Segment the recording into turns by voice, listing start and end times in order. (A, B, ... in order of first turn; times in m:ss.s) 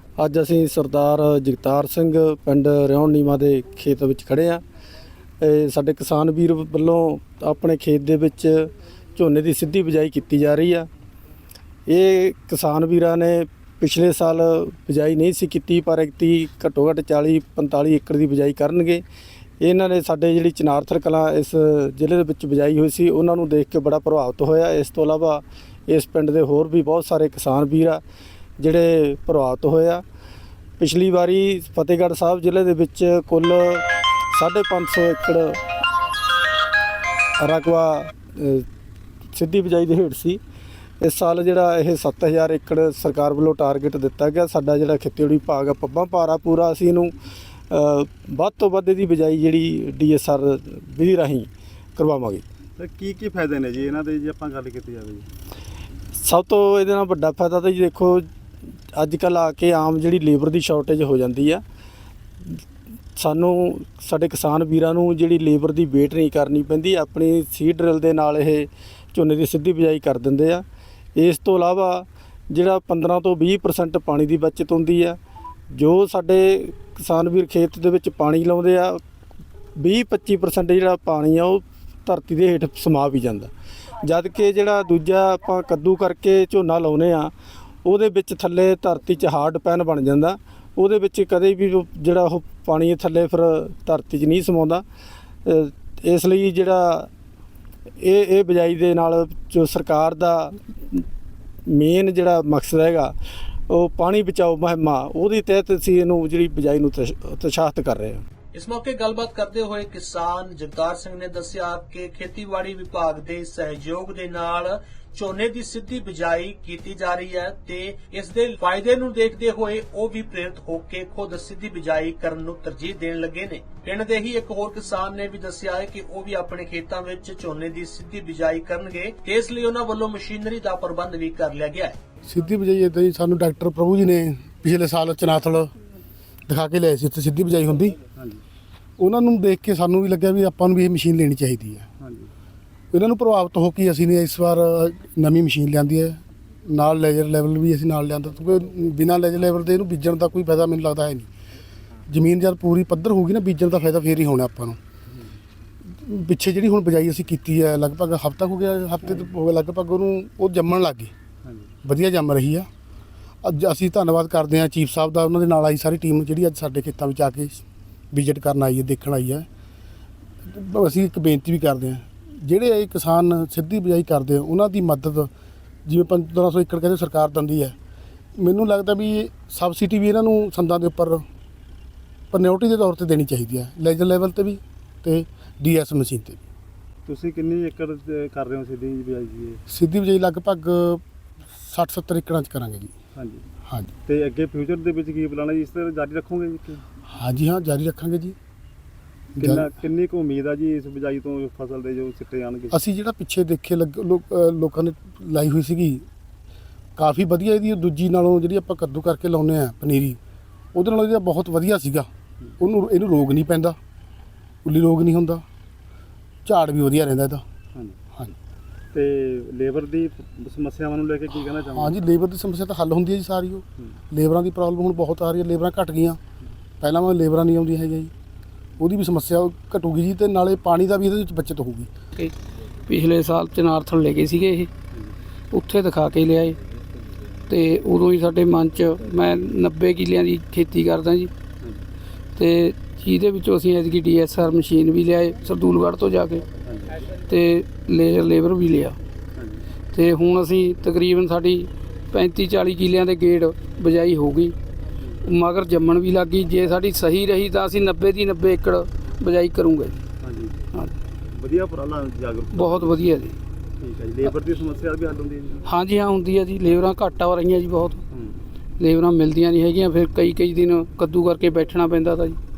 0:00.2-0:04.6 A
0:05.4-0:10.9 A
0:11.9-0:19.0 A
0:19.6-0:28.0 A
0:28.6-0:30.0 A
0:30.8-0:35.6 A
0:37.4-0:38.6 A
0:39.3-0:40.4 A
0:41.0-0:47.1 A
0:47.7-0:52.4 A
0:52.8-0:55.2 B
0:56.2-0:58.2 A
0:58.9-1:01.6 A
1:03.2-1:10.6 A
1:11.2-1:15.2 A
1:15.7-1:19.0 A
1:19.8-1:27.3 A
1:27.8-1:34.8 A
1:35.4-1:37.1 A
1:38.0-1:41.0 A
1:41.7-1:43.1 A
1:43.7-1:48.2 A
1:48.5-2:12.0 C
2:12.2-2:15.7 D
2:16.5-2:18.0 D
2:18.1-2:18.4 B
2:19.0-2:21.9 D
2:22.0-2:22.3 B
2:22.9-2:31.3 D
2:32.1-2:34.8 D
2:35.1-2:35.3 B
2:35.9-2:41.1 D
2:39.0-2:39.3 B
2:41.4-2:41.7 B
2:41.8-2:42.7 D
2:43.4-2:49.5 D
2:50.4-2:55.3 D
2:55.8-2:57.7 D
2:58.4-3:01.2 D
3:02.3-3:06.4 D
3:07.0-3:09.6 B
3:09.7-3:11.0 D
3:11.6-3:12.9 D
3:13.1-3:13.4 B
3:14.0-3:16.8 B
3:17.1-3:18.3 D
3:19.4-3:22.8 B
3:19.4-3:19.6 D
3:22.7-3:26.0 D
3:27.0-3:30.2 D
3:30.7-3:32.1 D
3:32.6-3:33.8 D
3:34.6-3:35.4 D
3:36.4-3:37.4 D
3:38.9-3:41.9 B
3:41.7-3:46.2 D
3:46.8-3:48.1 D
3:48.8-3:51.9 D
3:52.9-3:54.7 E
3:55.5-3:56.6 E
3:57.5-4:01.3 E
4:01.6-4:01.9 B
4:02.4-4:06.4 E
4:06.6-4:06.9 B
4:07.2-4:09.0 E
4:09.3-4:09.6 B
4:09.9-4:14.6 E
4:15.2-4:20.0 E
4:20.2-4:20.6 B
4:21.3-4:23.0 B
4:22.5-4:23.4 E
4:23.8-4:25.6 B
4:25.6-4:28.0 E
4:28.1-4:28.4 B
4:28.8-4:32.4 E